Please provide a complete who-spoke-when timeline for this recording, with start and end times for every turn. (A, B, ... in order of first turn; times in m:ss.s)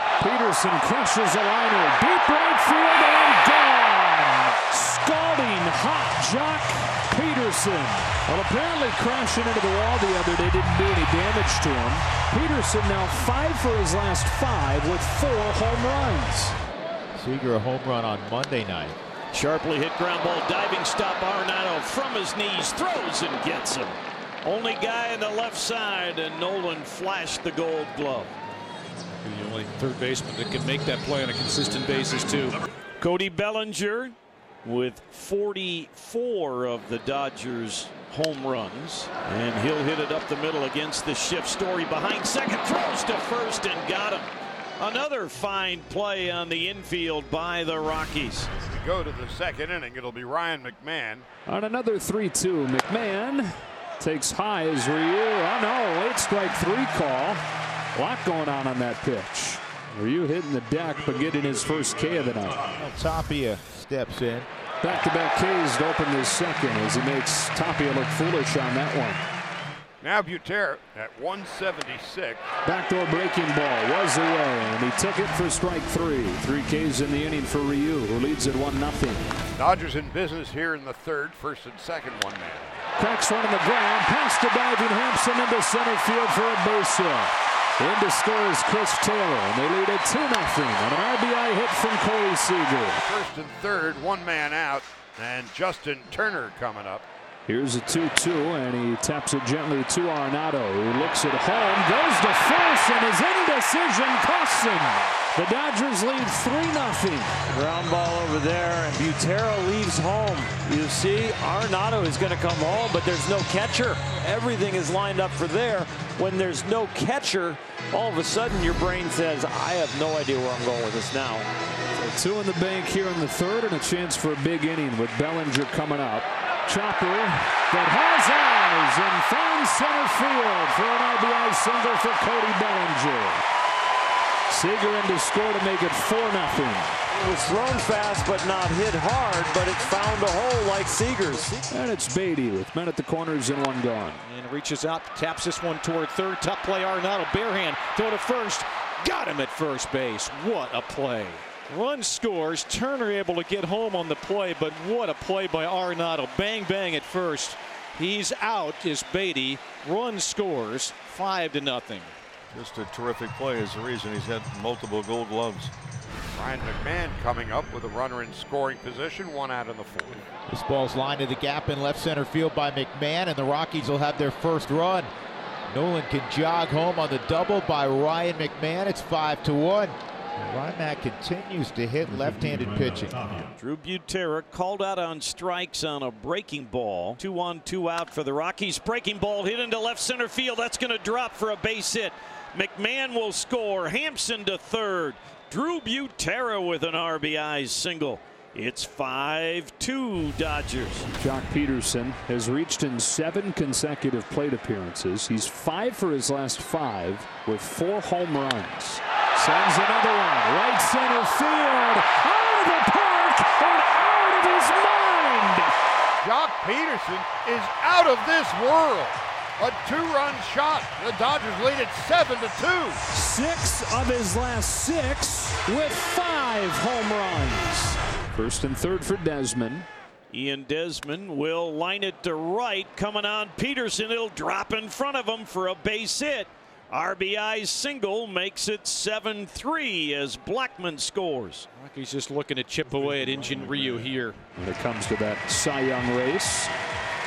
0:00.2-0:16.6 A
0:17.1-0:19.0 B
0:19.3-0:28.3 C
0:29.1-0:32.6 D
0:33.0-0:48.5 C
0:48.7-0:51.2 E
0:51.4-0:57.4 A
0:57.9-1:02.6 A
1:02.8-1:04.5 B
1:04.8-1:09.2 A
1:10.0-1:12.4 E
1:12.6-1:19.2 A
1:19.6-1:22.8 E
1:23.0-1:33.0 A
1:33.0-1:37.0 E
1:37.4-1:47.4 A
1:47.5-2:01.5 F
2:02.0-2:13.4 A
2:14.5-2:17.0 A
2:17.2-2:21.6 F
2:21.7-2:24.2 A
2:24.2-2:42.2 D
2:42.5-2:45.7 G
2:46.3-2:50.2 E
2:50.5-2:55.1 B
2:55.7-3:03.4 B
3:03.6-3:21.1 C
3:21.2-3:35.7 A
3:36.2-3:43.0 E
3:43.1-3:49.9 A
3:50.3-4:01.7 C
4:01.8-4:04.4 D
4:04.6-4:06.7 A